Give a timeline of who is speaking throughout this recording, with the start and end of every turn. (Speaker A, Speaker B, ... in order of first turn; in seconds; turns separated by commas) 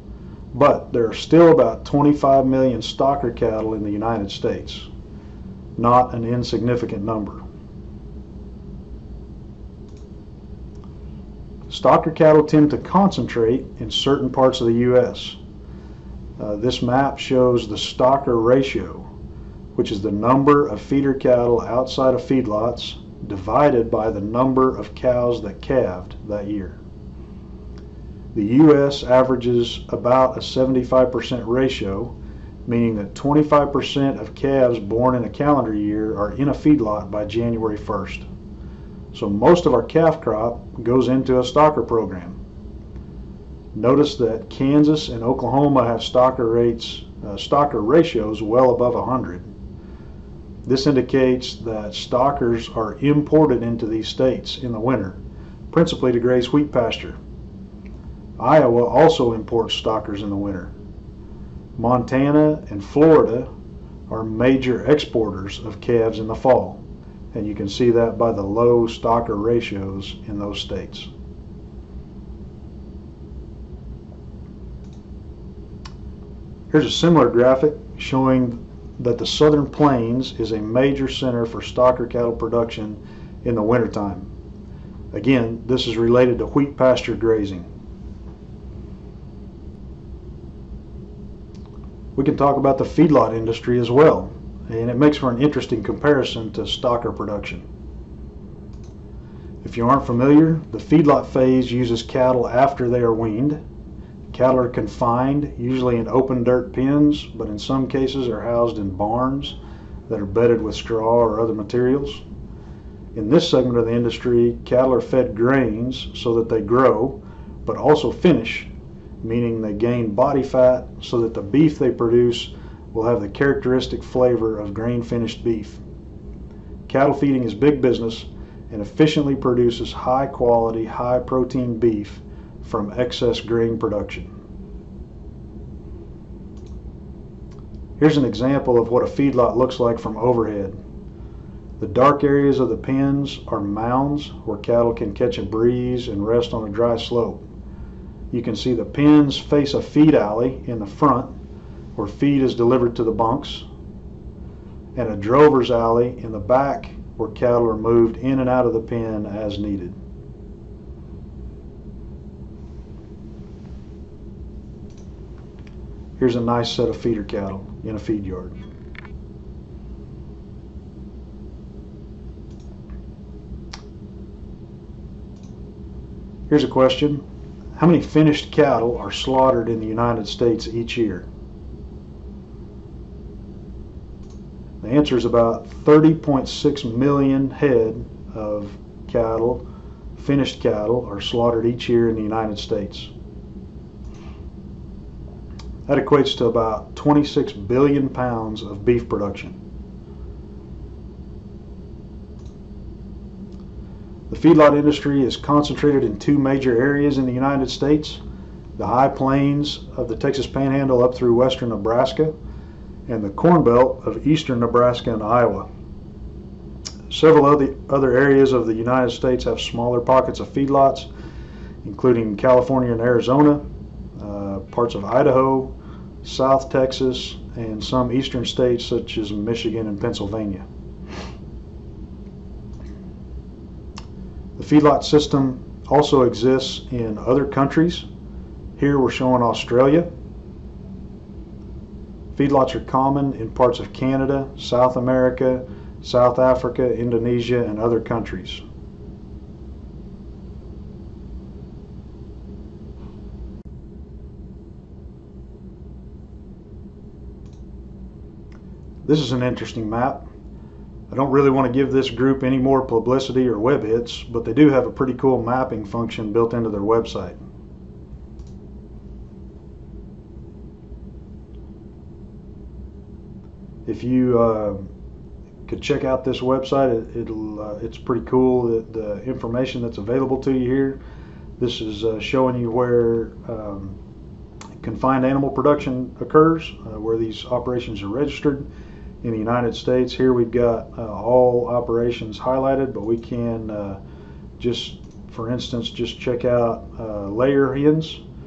Speaker A: 0.5-4.9, Speaker A: 5.8-7.4, Speaker A: 11.7-15.4, Speaker A: 16.4-19.1, Speaker A: 19.8-26.8, Speaker A: 28.3-32.1, Speaker A: 32.7-38.3, Speaker A: 39.1-42.4, Speaker A: 43.7-49.5, Speaker A: 50.6-55.2, Speaker A: 55.7-57.2, Speaker A: 58.4-60.7, Speaker A: 61.8-63.5, Speaker A: 64.1-66.8, Speaker A: 67.3-71.1, Speaker A: 76.7-84.3, Speaker A: 85.1-87.7, Speaker A: 92.2-97.7, Speaker A: 99.6-103.6, Speaker A: 104.3-109.6, Speaker A: 110.1-112.2, Speaker A: 113.1-118.7, Speaker A: 119.2-125.8, Speaker A: 126.9-134.3, Speaker A: 138.0-140.8, Speaker A: 141.8-147.4, Speaker A: 148.3-151.3, Speaker A: 152.0-153.7, Speaker A: 154.9-159.9, Speaker A: 166.2-168.6, Speaker A: 176.5-177.2, Speaker A: 177.8-181.3, Speaker A: 184.8-189.6, Speaker A: 190.2-193.1, Speaker A: 195.9-199.6, Speaker A: 204.3-208.2, Speaker A: 208.8-212.3, Speaker A: 213.1-215.7, Speaker A: 217.1-221.1, Speaker A: 221.8-223.6, Speaker A: 224.2-230.7, Speaker A: 234.6-238.1, Speaker A: 238.8-240.1, Speaker A: 242.3-248.6, Speaker A: 259.0-260.2, Speaker A: 261.1-267.4, Speaker A: 273.9-274.9, Speaker A: 275.7-281.0, Speaker A: 281.6-284.0, Speaker A: 284.8-288.7, Speaker A: 289.2-294.0, Speaker A: 294.6-298.2